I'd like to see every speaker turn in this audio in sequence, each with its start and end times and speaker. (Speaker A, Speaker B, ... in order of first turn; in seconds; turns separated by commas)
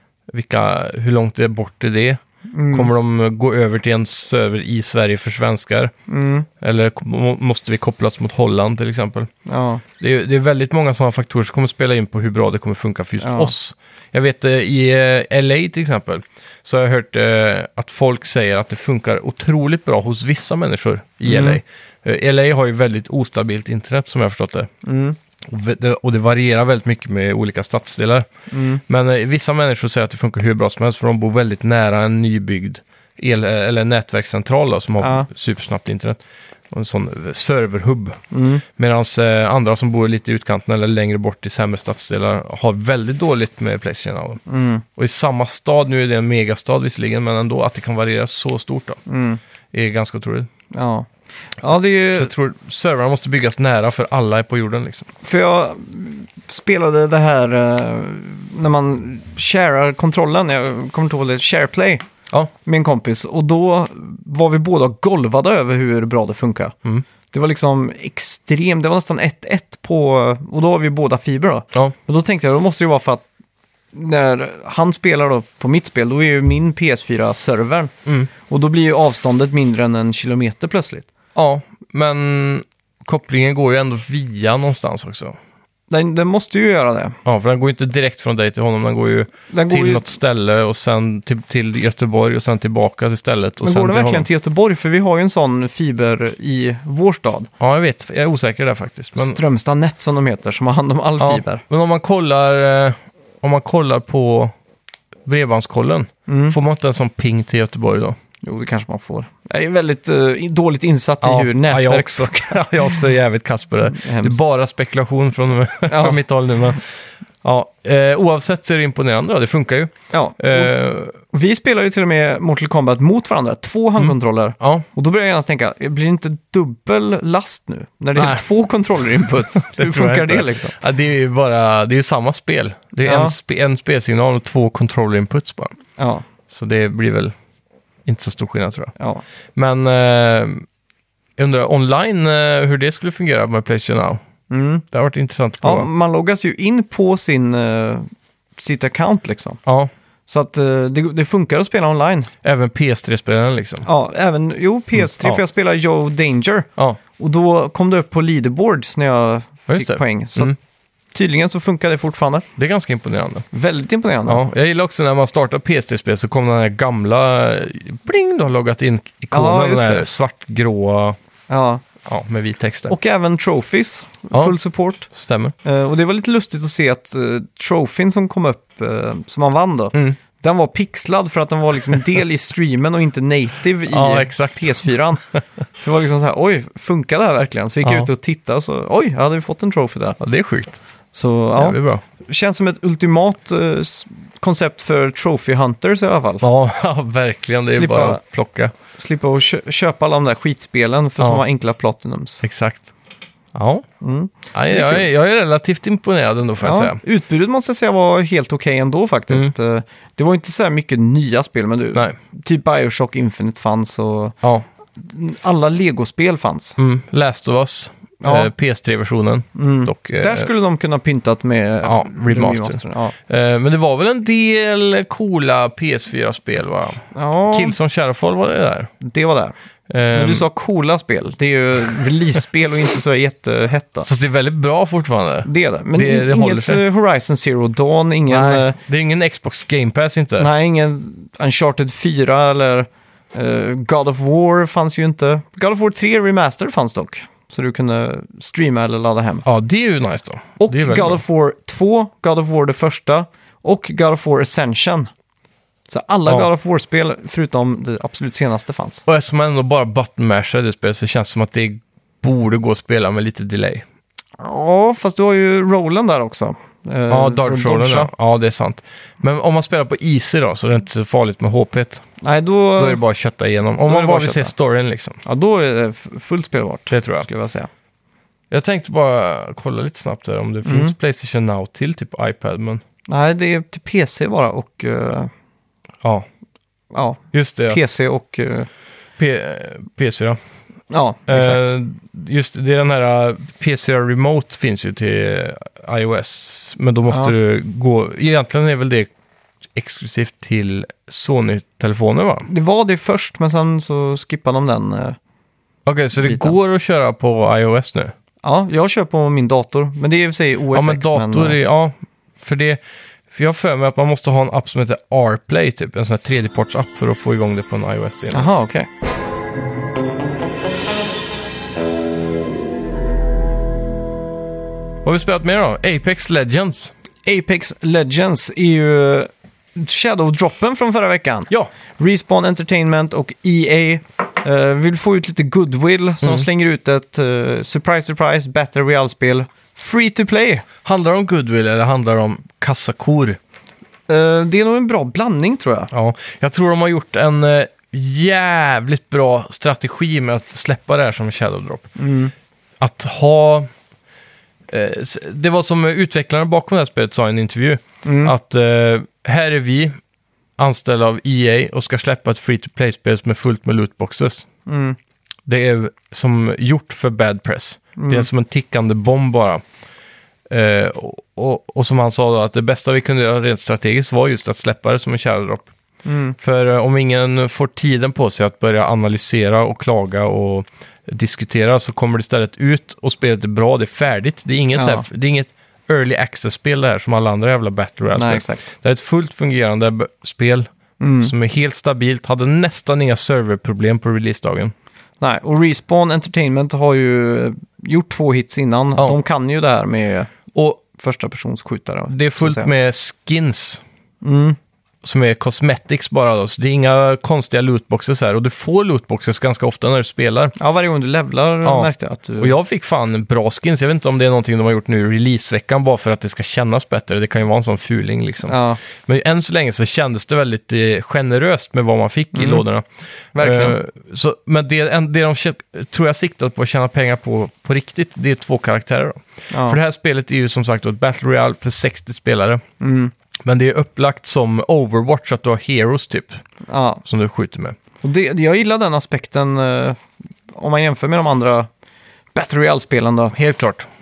Speaker A: 0.3-5.9, Speaker B: 2.5-2.9, Speaker B: 6.1-6.5, Speaker A: 6.6-9.3, Speaker B: 9.4-9.8, Speaker A: 10.0-24.7, Speaker B: 13.2-13.5, Speaker B: 21.2-21.6, Speaker B: 24.8-25.2, Speaker A: 25.4-28.3, Speaker B: 28.5-28.8, Speaker A: 28.9-44.4, Speaker B: 35.0-35.3, Speaker B: 38.3-38.6, Speaker B: 44.5-44.8, Speaker A: 45.0-49.0, Speaker B: 49.1-49.4, Speaker A: 49.7-50.5, Speaker B: 50.7-52.3, Speaker A: 52.1-55.1, Speaker B: 55.2-62.0, Speaker B: 62.6-66.7, Speaker B: 67.3-73.2, Speaker B: 73.9-77.9, Speaker B: 78.4-81.1, Speaker A: 81.3-85.4, Speaker B: 85.9-87.2, Speaker A: 87.2-94.3, Speaker B: 89.5-90.1, Speaker B: 93.6-97.5, Speaker A: 97.6-99.4, Speaker B: 99.2-101.6, Speaker A: 101.2-104.5, Speaker A: 105.2-108.2, Speaker B: 106.3-106.6, Speaker B: 108.4-112.9, Speaker A: 111.2-121.2, Speaker B: 113.8-114.4, Speaker B: 115.9-116.2, Speaker B: 120.1-130.8, Speaker A: 124.0-124.8, Speaker A: 128.2-128.4, Speaker A: 129.1-135.8, Speaker B: 133.0-133.3, Speaker B: 136.0-136.2, Speaker A: 136.5-137.3, Speaker A: 138.0-138.9, Speaker B: 139.0-139.2, Speaker A: 139.6-140.7, Speaker A: 141.4-144.2, Speaker B: 144.5-144.8, Speaker A: 144.9-145.9, Speaker B: 145.6-149.6, Speaker A: 149.7-149.9, Speaker B: 150.3-152.3, Speaker A: 152.4-153.9, Speaker B: 153.8-160.6, Speaker A: 159.7-160.5, Speaker B: 161.1-162.5, Speaker A: 162.6-163.5, Speaker B: 163.5-164.5, Speaker A: 164.2-171.2, Speaker B: 169.3-170.1, Speaker B: 171.5-171.8, Speaker A: 172.1-172.9, Speaker B: 172.9-175.1, Speaker A: 175.1-175.5, Speaker B: 175.6-185.2, Speaker A: 183.9-185.4, Speaker B: 185.8-190.2, Speaker A: 190.2-190.8, Speaker B: 191.1-196.4, Speaker A: 191.5-192.0, Speaker A: 196.4-198.7, Speaker B: 197.7-198.2, Speaker B: 198.9-202.4, Speaker A: 202.4-202.9, Speaker A: 203.5-203.8, Speaker B: 204.0-205.1, Speaker A: 204.5-207.0, Speaker B: 206.6-214.3, Speaker B: 214.9-216.8, Speaker A: 216.8-220.5, Speaker B: 218.2-218.5, Speaker B: 219.6-223.1, Speaker A: 221.8-228.9, Speaker B: 227.1-227.8, Speaker B: 229.0-229.5, Speaker A: 229.9-230.4, Speaker B: 230.1-234.1, Speaker A: 234.1-236.8, Speaker B: 235.4-238.8, Speaker A: 238.3-240.5, Speaker B: 240.4-249.4, Speaker A: 249.4-251.2, Speaker B: 250.6-255.1, Speaker B: 255.9-259.0, Speaker A: 259.1-263.8, Speaker B: 264.4-268.1, Speaker A: 267.1-272.0, Speaker B: 272.2-273.0, Speaker A: 272.8-275.2, Speaker B: 273.9-274.5, Speaker B: 275.2-277.7, Speaker A: 276.9-277.3, Speaker A: 278.5-282.8, Speaker B: 280.6-280.9, Speaker B: 283.1-285.3, Speaker B: 286.9-288.7, Speaker A: 287.3-287.8, Speaker A: 289.2-290.4, Speaker B: 290.9-291.7, Speaker A: 291.3-299.1, Speaker A: 299.7-302.5, Speaker B: 302.4-305.2, Speaker A: 305.9-308.1, Speaker B: 306.2-306.5, Speaker B: 308.4-311.6, Speaker A: 310.7-312.8, Speaker A: 313.3-318.5, Speaker B: 318.3-318.9, Speaker A: 325.0-326.9, Speaker B: 327.2-340.6, Speaker A: 340.8-343.4, Speaker B: 344.1-345.9, Speaker A: 345.9-351.9, Speaker B: 352.0-352.3, Speaker A: 352.8-353.7, Speaker A: 354.7-359.9, Speaker B: 358.0-358.3, Speaker A: 360.6-364.5, Speaker B: 364.6-365.0, Speaker A: 365.4-369.6, Speaker B: 367.9-368.3, Speaker A: 370.5-375.7, Speaker B: 376.0-376.4, Speaker A: 376.4-390.7, Speaker B: 384.7-385.1, Speaker B: 388.1-388.6, Speaker B: 391.0-391.3, Speaker A: 391.2-394.7, Speaker B: 395.2-402.7, Speaker A: 400.5-400.8, Speaker A: 402.1-403.8, Speaker B: 404.2-404.6, Speaker A: 405.0-410.5, Speaker B: 410.6-412.5, Speaker A: 411.6-411.9, Speaker A: 412.4-422.9, Speaker B: 418.5-418.8, Speaker B: 422.3-422.6, Speaker B: 423.3-423.8, Speaker A: 423.4-432.6, Speaker B: 429.5-429.8, Speaker B: 432.8-433.1, Speaker A: 433.4-436.4, Speaker B: 436.7-437.0, Speaker A: 437.0-437.8, Speaker B: 438.0-440.0, Speaker B: 440.5-441.7, Speaker B: 442.3-443.4, Speaker A: 443.3-443.9